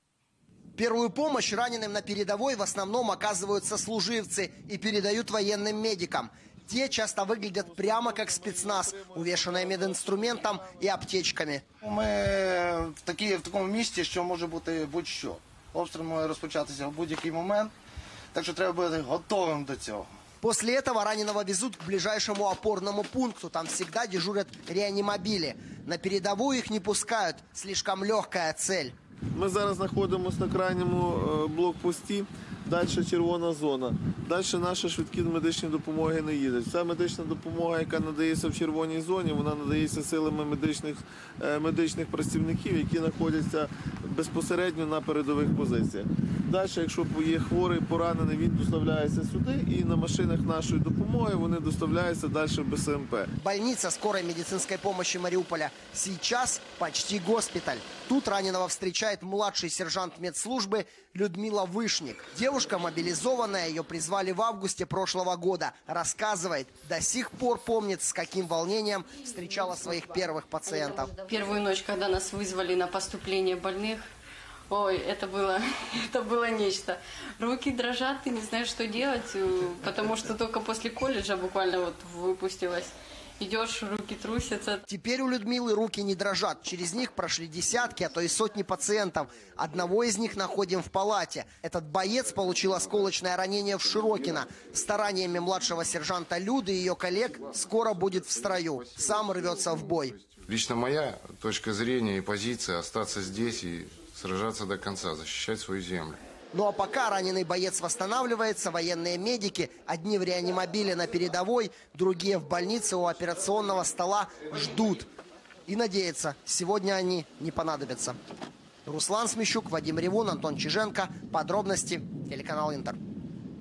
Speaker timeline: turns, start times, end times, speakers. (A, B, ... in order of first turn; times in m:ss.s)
0:00.8-0:11.6 A
0:11.8-0:17.7 B
0:18.3-0:20.1 B
0:20.4-0:28.9 A
0:29.3-0:53.3 C
0:53.4-1:11.1 A
1:11.3-1:14.1 D
1:14.7-1:24.8 D
1:24.9-1:40.2 A
1:40.4-1:46.2 E
1:46.5-1:55.1 A
1:55.7-1:58.2 A
1:58.9-2:03.0 A